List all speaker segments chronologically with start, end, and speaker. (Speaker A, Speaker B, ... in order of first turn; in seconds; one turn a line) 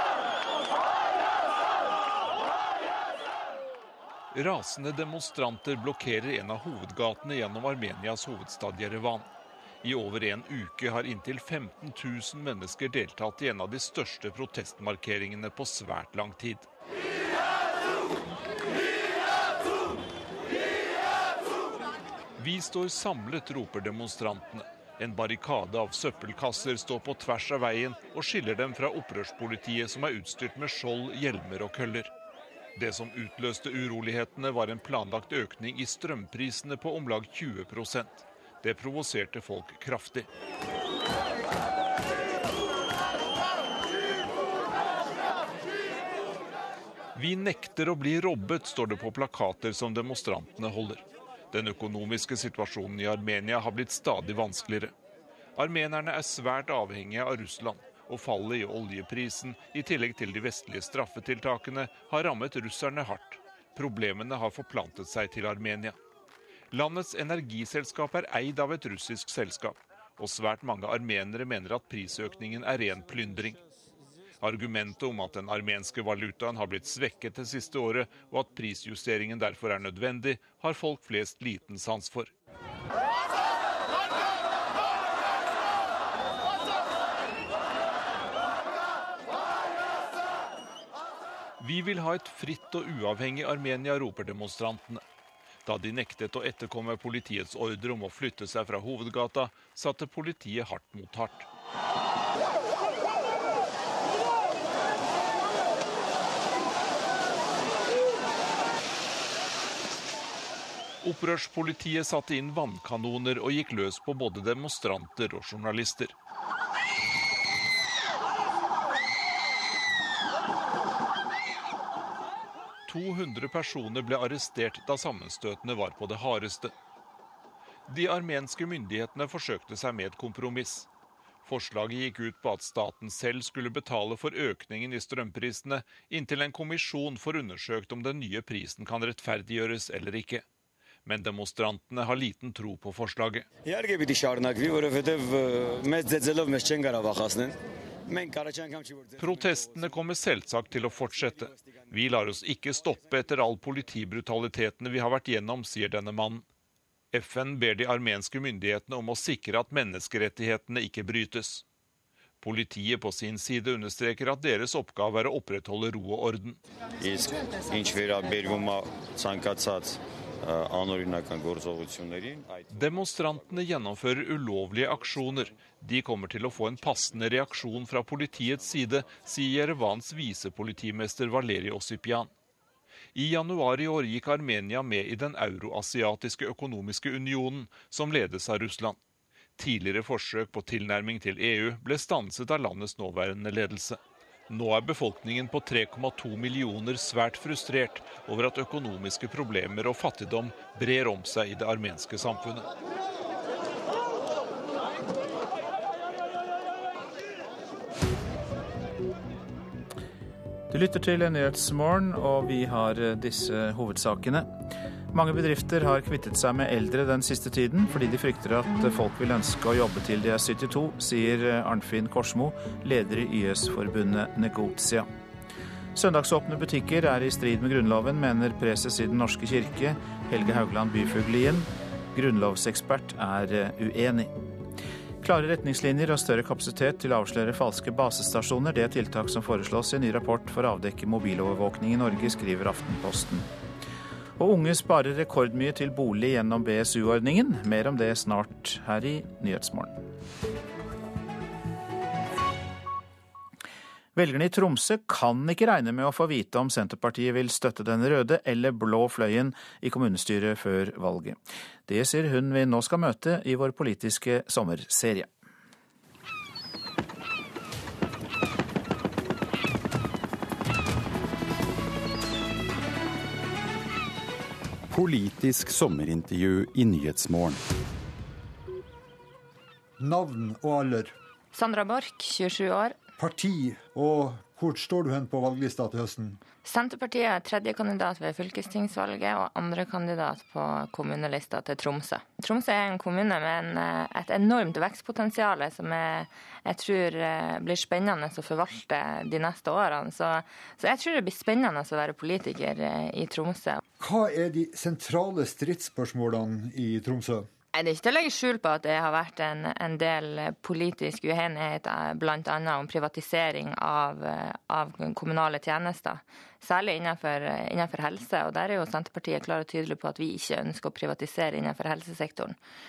Speaker A: 4.3-9.3
Speaker A: 9.8-16.7
Speaker A: 22.4-32.1
Speaker A: 32.8-40.3
Speaker A: 47.1-54.9
Speaker A: 55.6-66.0
Speaker A: 66.7-73.6
Speaker A: 74.4-82.3
Speaker A: 91.6-95.0
Speaker A: 95.7-101.5
Speaker A: 111.0-116.1
Speaker A: 122.9-126.7
Speaker A: 127.9-130.9
Speaker A: 131.4-140.4
Speaker A: 141.1-143.5
Speaker B: 143.7-149.5
Speaker A: 149.2-156.4
Speaker A: 157.1-161.6
Speaker A: 162.4-166.6
Speaker B: 167.0-172.7
Speaker A: 172.7-182.3
Speaker A: 183.2-189.0
Speaker A: 189.6-202.7
Speaker C: 210.7-214.5
Speaker C: 215.1-225.1
Speaker C: 225.9-234.3
Speaker C: 235.2-243.5
Speaker C: 244.4-250.0
Speaker C: 254.2-265.3
Speaker B: 274.9-277.6
Speaker D: 280.0-281.1
Speaker E: 281.5-283.0
Speaker D: 283.2-286.4
Speaker E: 286.6-303.8
Speaker D: 304.0-307.5
Speaker E: 307.8-322.6